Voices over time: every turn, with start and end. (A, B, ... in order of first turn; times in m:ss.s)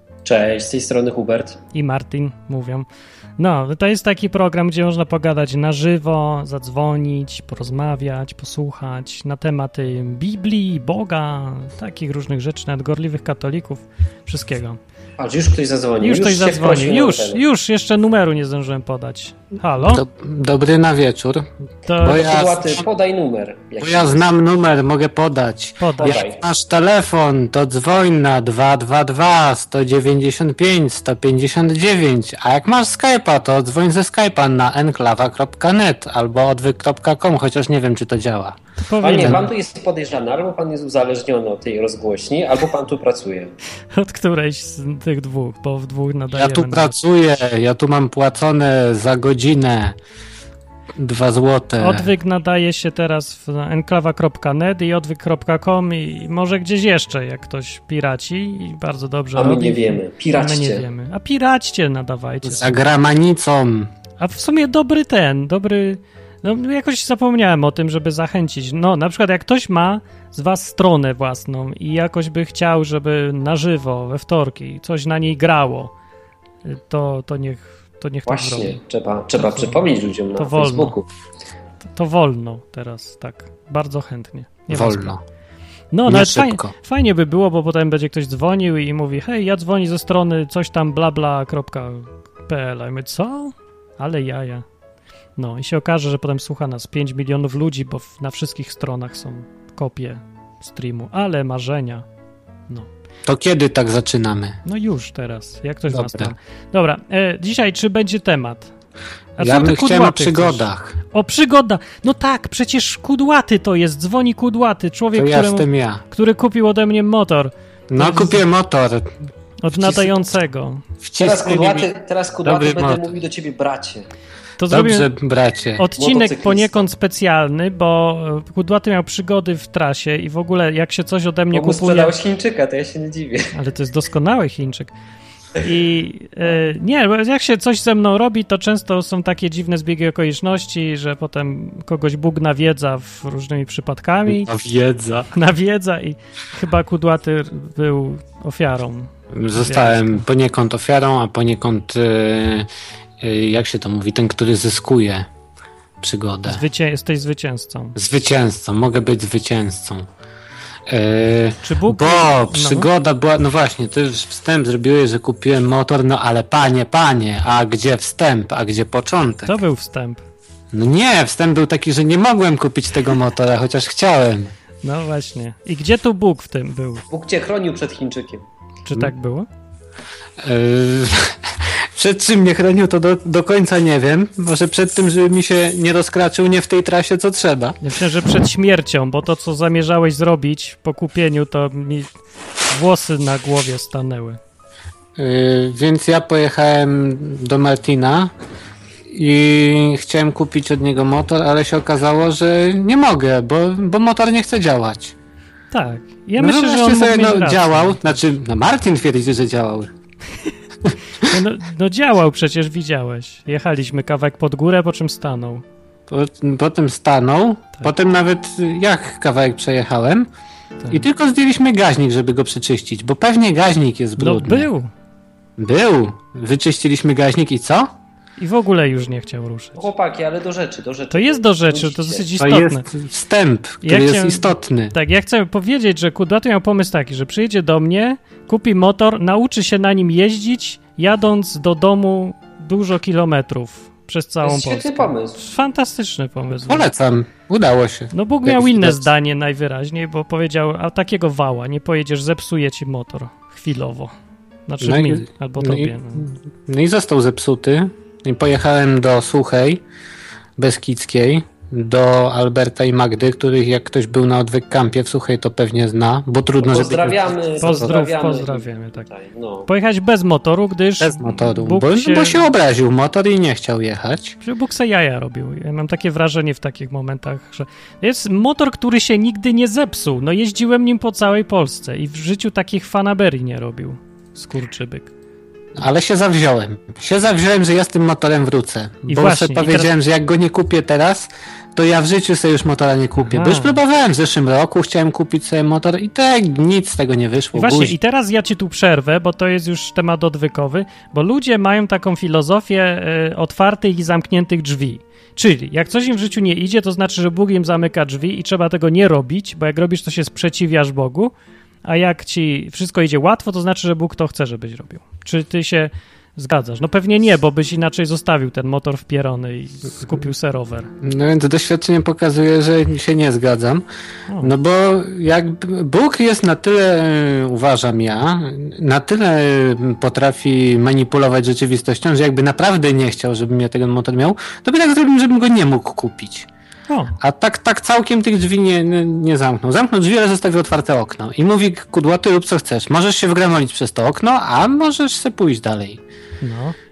0:00.2-0:01.6 A
0:01.7-0:02.9 B
0:03.4-0:14.8 B
0:15.2-0:17.4 A
0:16.0-0:20.0 B
0:19.8-0:21.5 C
0:21.8-0:22.3 B
0:22.0-0:22.8 C
0:22.0-0:24.2 A
0:23.8-0:38.6 C
0:25.8-0:26.2 B
0:26.0-0:26.4 A
0:38.8-0:39.5 B
0:39.0-0:43.5 A
0:39.1-0:39.4 C
0:43.9-0:46.9 B
0:46.3-0:50.0 C
0:51.0-0:52.1 C
0:51.8-1:02.8 B
0:59.4-1:00.8 A
1:02.4-1:03.9 C
1:04.2-1:15.9 B
1:16.6-1:18.8 B
1:18.3-1:21.1 A
1:19.4-1:21.0 B
1:21.9-1:25.1 B
1:24.7-1:25.2 C
1:25.9-1:34.6 B
1:26.1-1:26.7 C
1:35.4-1:42.0 B
1:43.2-1:44.6 C
1:44.6-1:48.7 B
1:45.9-1:46.3 C
1:49.4-1:58.4 B
1:49.4-1:51.0 C
1:55.1-1:56.0 C
1:57.9-1:59.1 C
1:59.6-2:00.8 B
1:59.7-2:00.3 C
2:01.0-2:01.9 C
2:01.2-2:04.1 A
2:02.4-2:03.1 C
2:04.6-2:05.1 B
2:04.7-2:05.8 C
2:05.8-2:12.1 B
2:06.0-2:06.8 A
2:11.5-2:13.5 A
2:13.5-2:14.9 B
2:15.6-2:24.5 B
2:24.3-2:25.3 C
2:25.3-2:30.2 B
2:29.3-2:32.7 C
2:33.2-2:35.3 C
2:36.0-2:36.6 C
2:36.4-2:38.0 B
2:38.0-2:40.1 C
2:40.9-2:49.6 C
2:41.6-2:42.9 B
2:49.4-2:50.2 B
2:50.7-2:54.5 C
2:54.8-2:57.0 B
2:57.1-2:58.4 A
2:58.8-2:59.5 B
3:00.4-3:07.8 C
3:07.8-3:12.1 B
3:12.7-3:14.4 B
3:15.2-3:18.3 C
3:19.1-3:25.1 C
3:25.7-3:28.2 B
3:26.4-3:29.9 C
3:30.8-3:31.3 C
3:31.2-3:35.6 B
3:36.1-3:40.3 C
3:40.8-3:41.1 B
3:40.9-3:44.7 C
3:44.2-3:44.9 B
3:45.6-3:47.9 C
3:48.4-3:49.8 B
3:49.8-3:52.3 A
3:51.1-3:52.8 B
3:52.4-3:54.9 C
3:53.8-4:06.9 B
4:04.4-4:05.4 A
4:06.6-4:09.0 C
4:08.1-4:14.1 B
4:14.7-4:16.2 B
4:14.8-4:19.8 C
4:20.6-4:27.4 C
4:26.6-4:29.7 A
4:27.6-4:29.1 B
4:29.7-4:32.4 B
4:31.0-4:34.4 C
4:34.4-4:45.1 B
4:45.7-4:57.9 C
4:49.1-4:49.9 B
4:53.2-4:53.8 B
4:57.5-5:11.3 B
5:11.8-5:20.9 B
5:21.0-5:23.8 C
5:24.4-5:36.5 C
5:36.9-5:37.2 B
5:37.2-5:46.0 C
5:46.4-5:46.8 B